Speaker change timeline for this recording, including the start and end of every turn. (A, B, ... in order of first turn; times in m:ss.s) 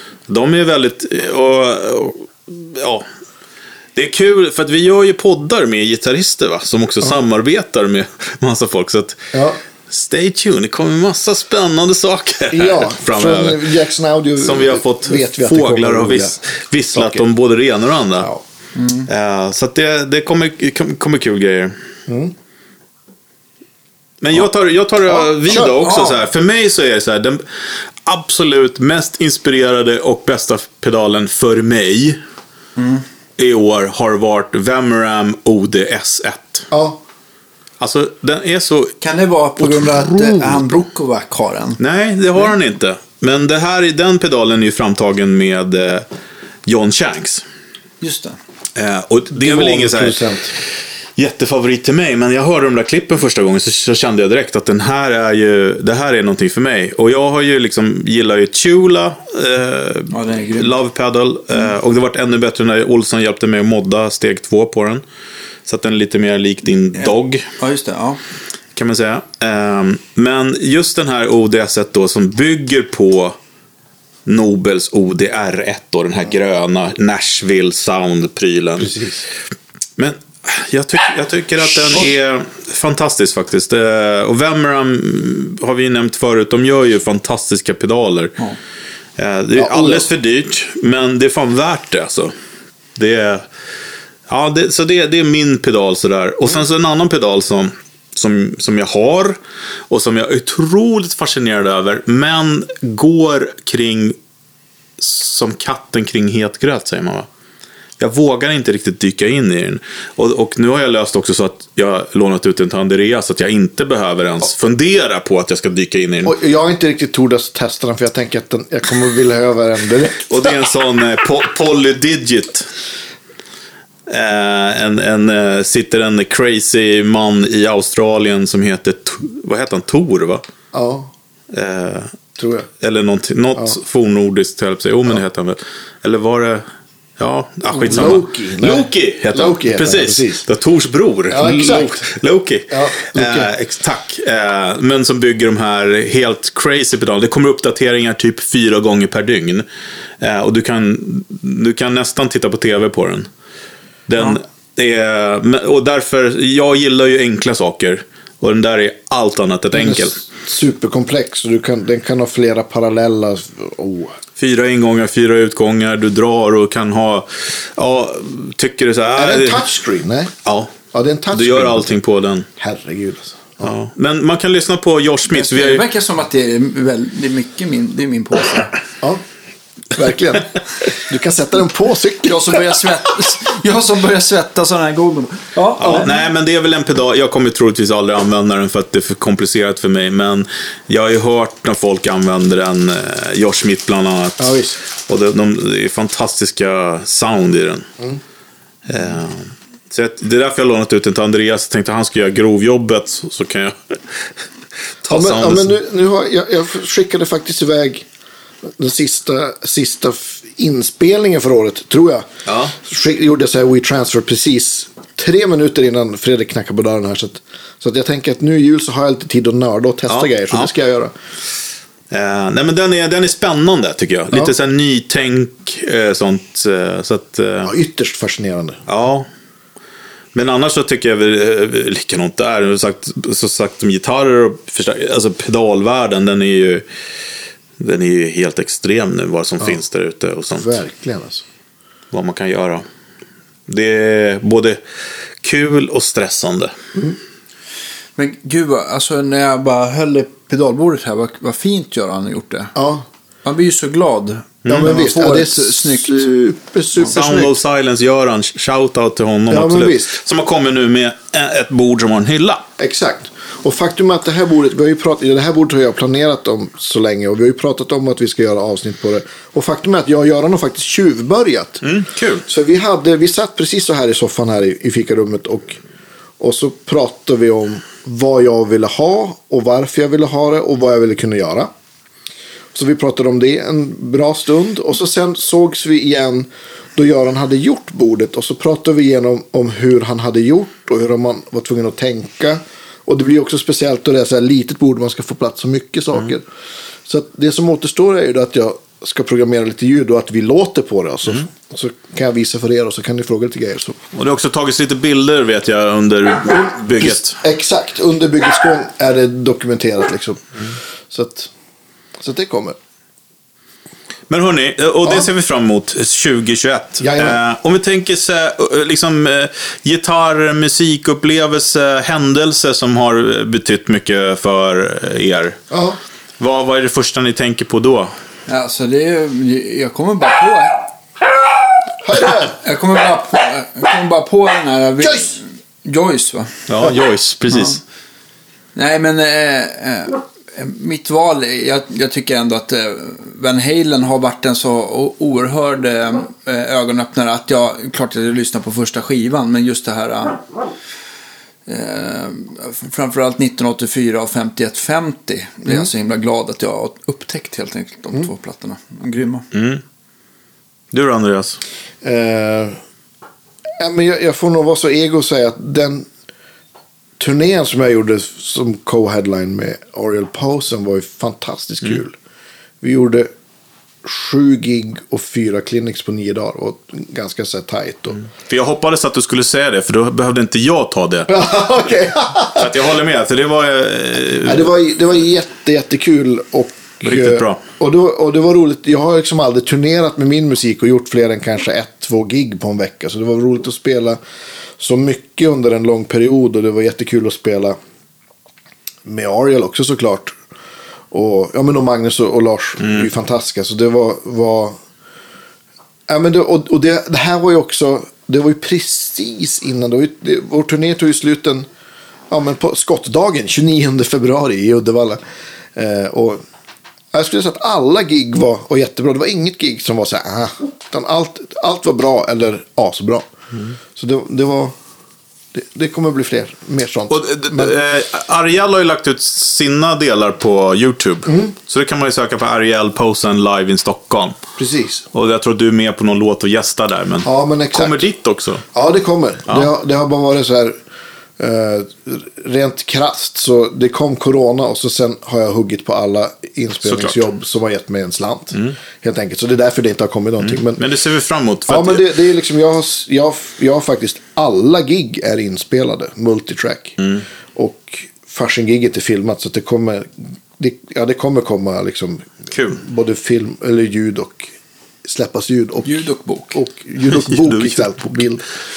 0:00.3-0:03.0 A
0:03.9-0:09.3 A
0:09.3-0:09.6 B
0:09.9-0:13.7 A
0:12.5-0:16.4 B
0:14.4-0:18.3 A
0:16.9-0:17.2 B
0:18.7-0:19.1 C
0:19.1-0:21.8 A
0:22.1-0:22.3 B
0:24.2-0:32.2 A
0:25.1-0:25.8 B
0:25.8-0:26.2 C
0:32.8-0:33.0 C
0:33.4-0:36.7 A
0:36.7-0:37.0 B
0:37.8-0:38.9 A
0:39.0-0:41.8 C
0:39.6-0:40.6 B
0:41.8-0:46.1 A
0:46.6-0:47.4 A
0:48.0-0:48.4 C
0:48.8-0:50.6 A
0:49.3-0:50.5 B
0:51.2-1:05.0 A
1:00.1-1:00.7 C
1:05.6-1:07.5 A
1:06.9-1:08.2 C
1:08.8-1:13.4 A
1:14.2-1:19.1 A
1:18.8-1:19.2 B
1:20.0-1:28.4 A
1:29.2-1:32.3 A
1:29.6-1:30.1 B
1:33.0-1:33.5 A
1:34.3-1:39.4 A
1:39.9-1:44.1 A
1:45.0-1:47.3 A
1:48.0-1:56.3 A
1:56.2-2:00.3 B
2:00.3-2:02.7 A
2:04.1-2:10.4 A
2:10.7-2:11.1 B
2:11.5-2:12.1 A
2:12.4-2:12.7 B
2:12.8-2:16.6 A
2:17.2-2:29.6 A
2:17.7-2:20.4 B
2:21.3-2:22.1 B
2:22.7-2:23.5 B
2:30.2-2:33.3 A
2:34.1-2:40.2 A
2:39.7-2:44.2 B
2:44.4-2:49.7 A
2:49.2-2:50.3 B
2:50.4-2:50.8 A
2:50.9-2:51.9 B
2:51.3-2:52.5 A
2:52.6-2:53.7 B
2:53.6-2:55.8 A
2:55.3-2:58.7 C
2:59.9-3:02.6 B
3:02.2-3:06.1 C
3:05.6-3:06.1 B
3:05.8-3:17.9 A
3:14.4-3:14.8 B
3:18.9-3:24.3 A
3:25.0-3:25.7 A
3:25.1-3:28.1 B
3:28.6-3:41.1 B
3:32.5-3:32.7 A
3:40.1-3:40.7 A
3:42.1-3:47.7 A
3:47.6-3:48.8 B
3:48.9-3:49.2 A
3:50.3-3:56.8 A
3:57.8-4:00.7 A
4:00.5-4:01.4 B
4:02.1-4:02.8 A
4:03.7-4:04.8 A
4:05.4-4:06.7 A
4:08.2-4:12.7 C
4:12.7-4:13.0 B
4:13.4-4:16.2 C
4:14.6-4:14.9 A
4:14.7-4:17.6 B
4:17.0-4:22.6 A
4:19.5-4:20.2 B
4:22.8-4:31.8 B
4:31.8-4:32.4 A
4:32.4-4:35.8 B
4:36.4-4:41.7 B
4:42.7-4:56.4 B
4:57.0-5:04.0 B
5:04.1-5:07.4 A
5:06.5-5:11.5 B
5:12.2-5:12.8 B
5:14.3-5:25.6 A
5:17.0-5:17.4 B
5:25.7-5:26.0 B
5:26.4-5:28.1 A
5:28.5-5:30.9 C
5:32.0-5:32.5 B
5:32.2-5:36.7 C
5:36.7-5:37.8 A
5:37.5-5:37.8 C
5:38.7-5:50.4 C
5:51.6-5:59.5 C
5:59.5-5:59.8 A
6:00.9-6:01.6 A
6:02.0-6:02.8 B
6:03.8-6:06.1 B
6:07.2-6:12.2 B
6:12.8-6:13.3 B
6:14.0-6:18.2 B
6:18.5-6:21.3 A
6:21.3-6:22.7 B
6:22.5-6:24.7 A
6:24.4-6:34.2 B
6:27.0-6:27.6 A
6:34.8-6:37.8 B
6:39.0-6:40.3 B
6:41.1-6:44.8 B
6:46.1-6:51.7 B
6:52.3-6:55.2 B
6:55.7-6:56.4 B
6:57.1-7:03.3 B
7:03.9-7:04.8 B
7:05.5-7:07.7 B
7:07.1-7:14.4 A
7:11.3-7:11.5 B
7:14.6-7:15.1 B
7:15.1-7:18.6 A
7:17.2-7:18.1 B
7:18.7-7:20.8 B
7:21.4-7:30.8 B
7:26.8-7:27.2 A
7:30.4-7:32.0 A
7:31.7-7:37.0 B
7:37.5-7:48.4 B
7:42.5-7:42.8 A
7:45.8-7:46.6 C
7:47.0-7:48.0 A